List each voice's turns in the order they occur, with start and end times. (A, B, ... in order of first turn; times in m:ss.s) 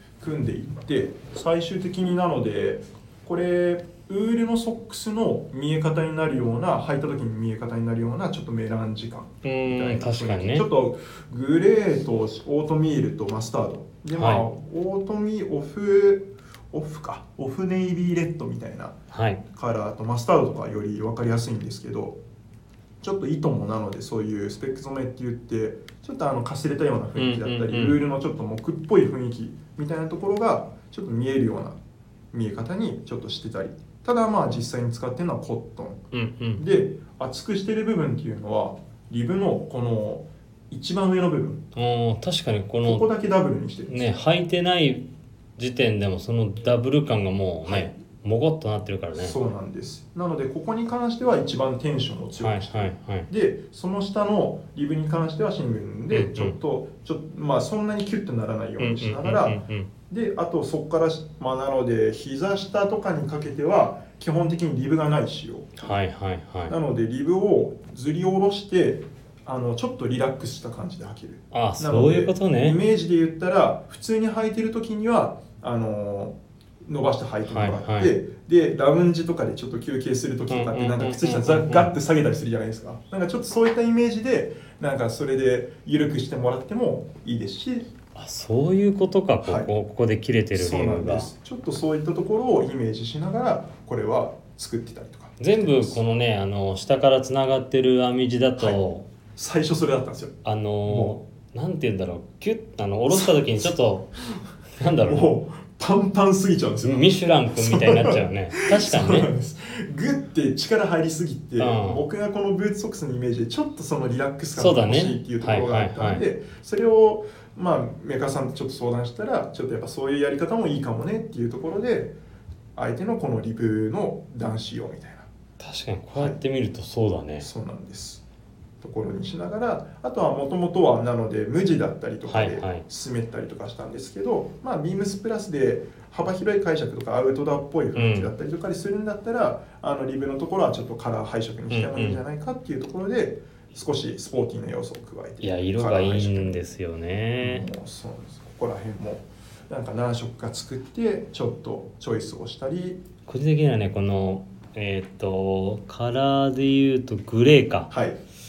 0:00.2-0:19.0 A
0:09.4-0:10.7 B
0:14.2-0:14.4 B
0:19.1-0:19.4 B
0:19.5-0:22.2 A
0:23.0-0:31.8 A
0:27.2-0:28.0 B
0:32.3-0:36.0 A
0:36.1-0:36.6 B
0:36.6-0:41.7 A
0:41.7-0:43.1 B
0:42.8-0:44.1 A
0:43.9-0:45.0 B
0:45.6-0:49.4 B
0:49.1-1:05.9 A
0:52.4-0:53.3 B
0:56.1-0:56.5 B
0:58.8-0:59.9 B
1:05.8-1:06.7 B
1:06.7-1:27.9 A
1:11.5-1:12.8 B
1:17.5-1:18.1 B
1:20.5-1:22.0 B
1:28.1-1:31.3 B
1:29.4-1:29.7 A
1:30.5-1:36.0 A
1:35.4-1:39.0 B
1:39.4-1:41.2 A
1:40.4-1:44.1 B
1:43.1-1:43.7 A
1:44.3-2:02.2 A
1:44.8-1:45.3 B
1:46.8-1:49.3 B
1:51.6-1:52.0 B
1:54.6-1:56.2 B
2:02.7-2:05.3 A
2:05.6-2:07.5 B
2:07.4-2:08.2 A
2:08.8-2:26.6 A
2:12.2-2:12.8 B
2:18.0-2:18.3 B
2:21.7-2:22.2 B
2:25.4-2:27.7 B
2:27.4-2:33.0 A
2:33.3-2:37.9 B
2:37.9-2:38.2 A